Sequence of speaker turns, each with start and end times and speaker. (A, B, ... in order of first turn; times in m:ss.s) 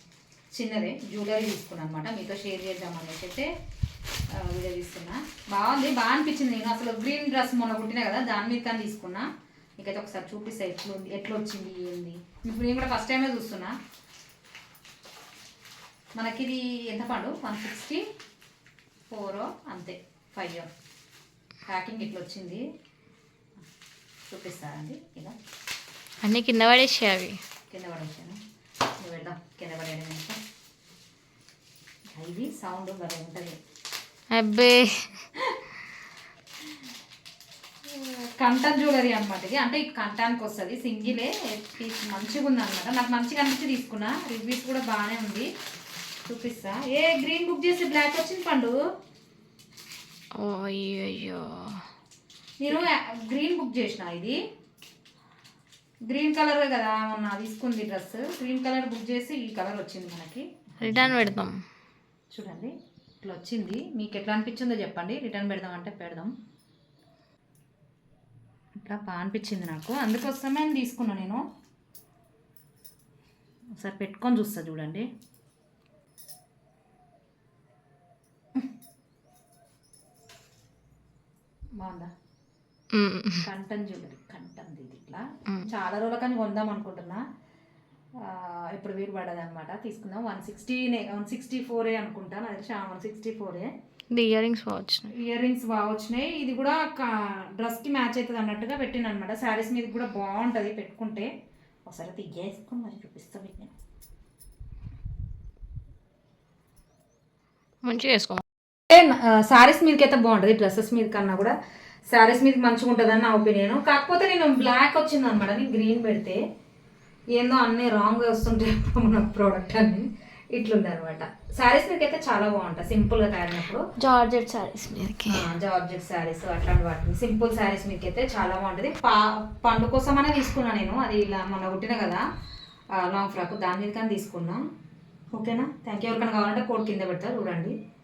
0:00.5-0:03.5 A
0:04.3-0:09.2 A
0:09.8-0:13.7 A
0:16.2-0:18.0 A
0:19.1-0:20.7 A
0:21.7-0:22.6 A
0:24.3-0:25.4 A
0:26.2-0:27.4 B
0:27.7-0:28.4 A
0:29.0-0:30.4 A
0:32.2-0:33.6 A
0:34.3-0:35.1 B
0:37.9-0:45.5 A
0:46.2-0:48.8 A
0:50.4-0:51.8 B
0:52.6-0:54.4 A
0:56.1-1:01.4 A
1:00.8-1:01.6 B
1:02.3-1:06.3 A
1:08.8-1:11.4 A
1:13.8-1:15.1 A
1:21.8-1:22.1 A
1:22.9-1:23.4 B
1:23.4-1:27.2 A
1:28.2-1:33.7 A
1:34.1-1:35.1 B
1:35.1-1:41.3 A
1:41.9-1:43.7 A
1:47.8-1:48.4 B
1:48.9-1:51.5 A
1:52.1-1:56.4 A
1:57.3-2:03.8 A
2:04.0-2:05.4 B
2:05.2-2:12.2 A
2:13.0-2:14.6 A
2:15.3-2:17.7 A